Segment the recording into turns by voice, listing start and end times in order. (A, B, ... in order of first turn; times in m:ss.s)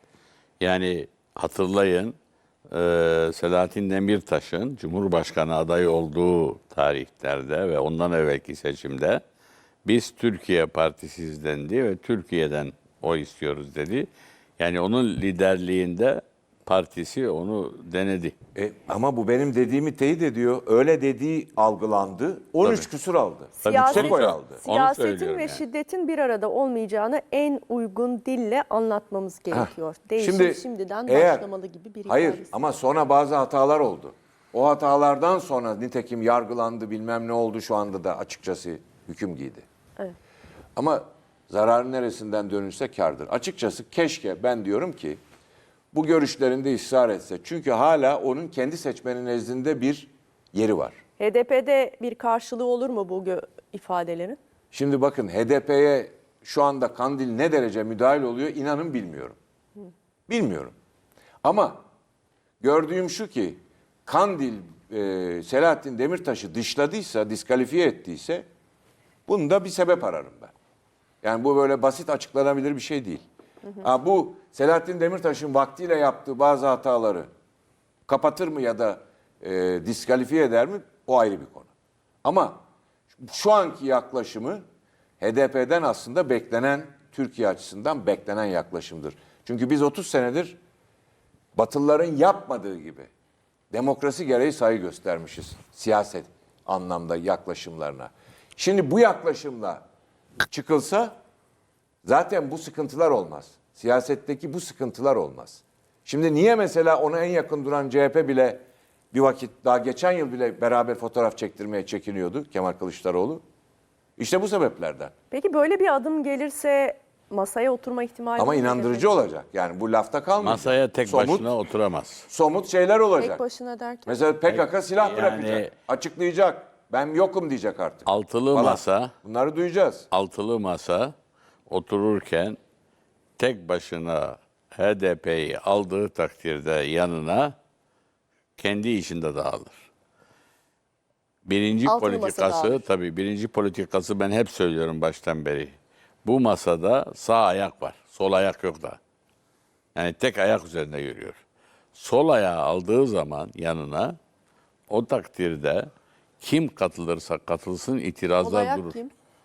0:00.6-0:02.2 A
0:02.7-0:09.2 A
0:09.8-0:14.1 A
0:14.6-0:18.4 A
0:18.6-0:24.6 B
0:22.6-0:22.9 A
0:23.6-0:32.5 C
0:23.6-0:25.6 A
0:29.5-0:31.5 B
0:32.1-0:39.7 B
0:40.8-0:45.2 B
0:45.9-0:51.0 B
0:51.2-0:54.4 C
0:54.7-0:59.4 B
1:00.3-1:00.7 B
1:01.4-1:01.8 B
1:02.6-1:08.4 B
1:09.3-1:10.5 B
1:11.2-1:13.2 B
1:13.8-1:17.3 B
1:18.1-1:21.7 B
1:22.2-1:22.6 B
1:23.2-1:24.6 B
1:25.2-1:30.6 B
1:31.6-1:33.1 B
1:33.7-1:39.8 B
1:40.4-1:41.1 B
1:42.0-1:53.4 B
1:54.2-1:55.1 B
1:55.3-1:59.1 C
1:58.4-2:01.5 B
2:00.4-2:02.3 A
2:02.3-2:03.4 B
2:03.2-2:04.2 C
2:04.1-2:10.1 B
2:04.5-2:05.7 A
2:08.1-2:09.1 A
2:10.1-2:11.1 A
2:11.7-2:12.6 A
2:13.4-2:17.6 A
2:18.6-2:19.8 A
2:21.4-2:29.0 A
2:21.9-2:22.8 C
2:30.0-2:31.4 A
2:32.0-2:34.2 A
2:34.9-2:35.9 A
2:36.4-2:39.0 A
2:38.4-2:39.1 C